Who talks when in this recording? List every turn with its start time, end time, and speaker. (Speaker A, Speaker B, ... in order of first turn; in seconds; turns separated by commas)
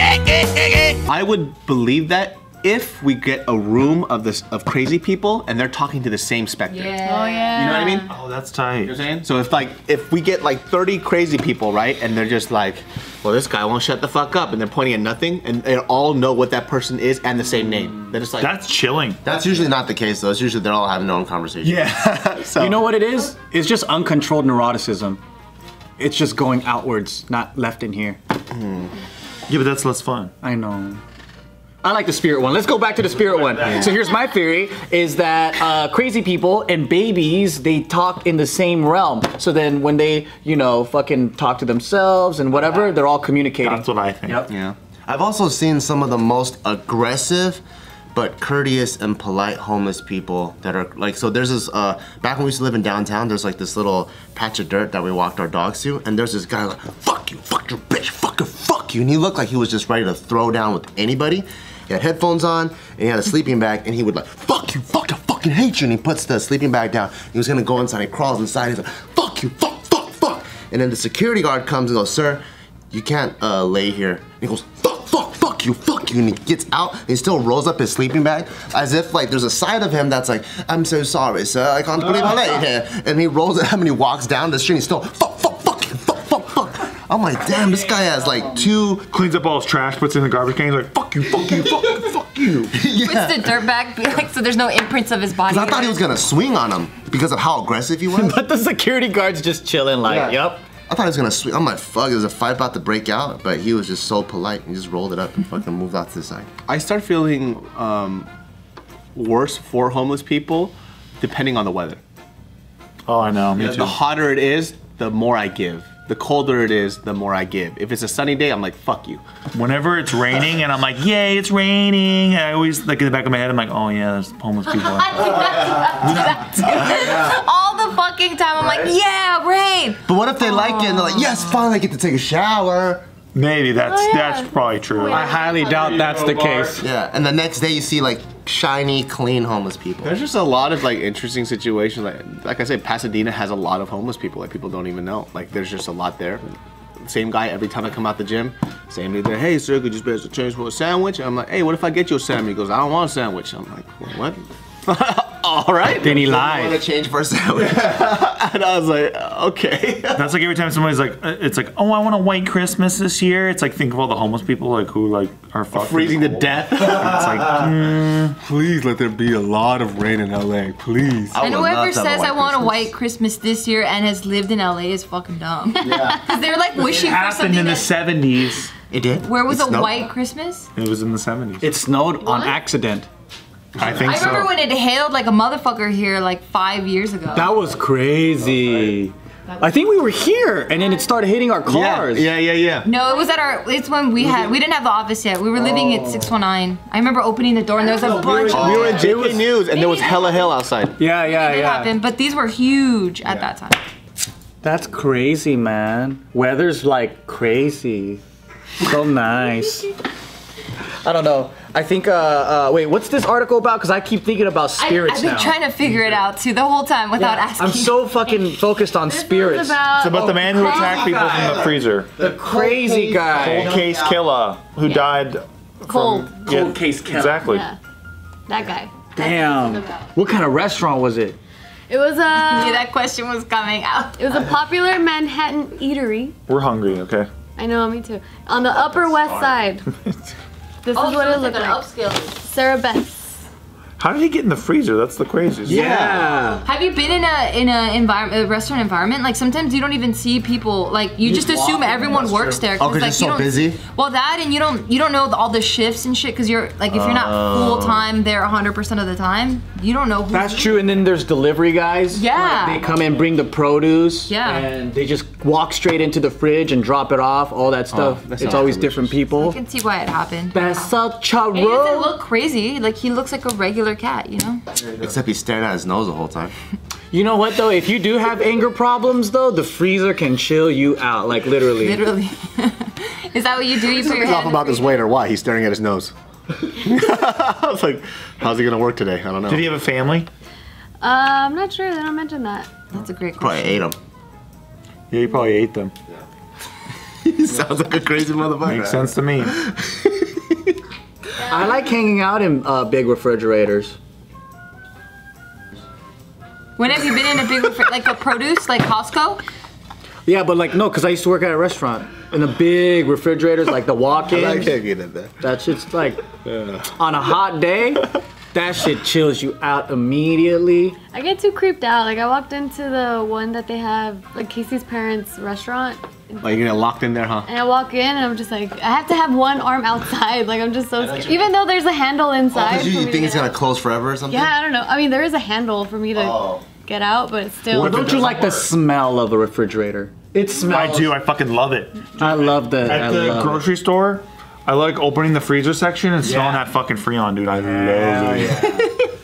Speaker A: 0.6-6.8, Speaker B: 6.6-7.9, Speaker C: 6.8-8.1, Speaker A: 7.5-8.0, Speaker D: 8.0-8.9, Speaker A: 8.8-18.5, Speaker D: 18.4-19.2, Speaker E: 19.2-21.9, Speaker A: 21.6-22.8, Speaker F: 22.6-25.2, Speaker F: 26.0-28.2, Speaker A: 28.5-28.9, Speaker D: 29.5-30.3, Speaker F: 30.4-31.0, Speaker F: 31.8-44.5, Speaker D: 33.5-33.9, Speaker D: 43.6-44.5, Speaker A: 44.5-44.7, Speaker E: 45.1-47.6, Speaker E: 48.1-89.1, Speaker D: 89.1-91.9, Speaker E: 91.6-91.9, Speaker E: 92.7-93.6, Speaker B: 93.0-96.1, Speaker E: 95.5-98.4, Speaker F: 98.1-100.6, Speaker E: 100.0-106.5, Speaker A: 106.7-108.3, Speaker A: 109.1-112.0, Speaker D: 113.0-114.0, Speaker A: 113.5-119.2, Speaker D: 119.5-127.1, Speaker B: 124.7-131.7, Speaker E: 130.0-133.0, Speaker D: 133.3-136.8, Speaker C: 133.9-136.0, Speaker F: 135.1-136.8, Speaker E: 136.8-140.1, Speaker A: 140.1-146.4, Speaker A: 147.1-154.3, Speaker C: 153.9-154.3, Speaker A: 154.8-156.1, Speaker F: 156.0-156.8, Speaker E: 156.0-157.8, Speaker A: 157.6-160.3, Speaker D: 160.1-168.3, Speaker A: 165.7-167.1, Speaker A: 168.4-171.3, Speaker E: 171.3-172.9, Speaker B: 171.4-177.9, Speaker D: 176.8-178.7, Speaker E: 178.9-180.0, Speaker B: 179.2-180.7, Speaker D: 180.8-181.7, Speaker F: 181.6-183.1, Speaker B: 182.2-182.5, Speaker D: 183.8-184.5, Speaker B: 184.0-187.5, Speaker F: 187.3-192.3, Speaker A: 191.7-192.9, Speaker B: 192.8-199.1, Speaker F: 195.6-196.3, Speaker A: 198.3-200.9, Speaker E: 198.4-199.1, Speaker C: 198.5-199.3, Speaker F: 198.7-199.5, Speaker B: 199.6-200.5, Speaker C: 199.8-200.4, Speaker F: 201.0-201.9, Speaker B: 201.2-203.8, Speaker F: 204.6-208.2, Speaker F: 208.8-209.9, Speaker F: 211.0-215.5, Speaker B: 214.8-218.0, Speaker F: 217.2-219.8, Speaker C: 219.1-220.4, Speaker D: 219.9-222.1, Speaker B: 220.4-221.0, Speaker F: 220.7-223.8, Speaker E: 221.0-221.7, Speaker E: 222.2-224.2, Speaker D: 223.3-227.7, Speaker C: 225.9-226.3, Speaker F: 226.4-227.4, Speaker C: 228.5-229.7, Speaker F: 229.1-231.4, Speaker C: 231.9-232.8, Speaker B: 232.3-234.4, Speaker C: 234.2-236.3, Speaker D: 236.5-237.3, Speaker C: 237.6-239.8, Speaker D: 238.6-240.1, Speaker C: 240.8-241.8, Speaker B: 240.9-242.4, Speaker C: 242.5-243.3, Speaker D: 244.0-246.0, Speaker F: 245.6-246.6, Speaker A: 245.9-246.3, Speaker B: 246.6-261.0, Speaker F: 251.2-252.7, Speaker E: 252.8-253.8, Speaker E: 256.9-258.1, Speaker F: 260.3-269.6, Speaker B: 262.1-262.9, Speaker B: 264.3-264.7, Speaker A: 267.9-269.1, Speaker B: 269.3-270.9, Speaker F: 270.5-272.1, Speaker B: 271.5-274.6, Speaker E: 274.8-276.5, Speaker F: 277.1-282.0, Speaker B: 281.8-284.9, Speaker A: 283.9-286.1, Speaker A: 286.8-289.6, Speaker D: 289.5-290.3, Speaker C: 291.0-292.7, Speaker B: 292.9-293.9, Speaker E: 293.4-294.0, Speaker D: 295.1-295.9, Speaker E: 297.2-300.4, Speaker D: 298.6-299.5, Speaker F: 301.4-303.9, Speaker B: 306.8-309.4, Speaker F: 310.2-314.8, Speaker A: 314.4-315.3, Speaker F: 315.4-316.3, Speaker A: 316.5-316.7, Speaker F: 316.9-321.0, Speaker C: 321.1-333.5, Speaker A: 326.4-327.5, Speaker E: 332.5-334.5, Speaker C: 334.3-338.2, Speaker E: 336.1-336.6, Speaker D: 337.6-338.6, Speaker F: 337.7-341.1, Speaker D: 340.7-348.8, Speaker F: 342.2-343.6, Speaker F: 346.2-346.6, Speaker F: 347.5-348.9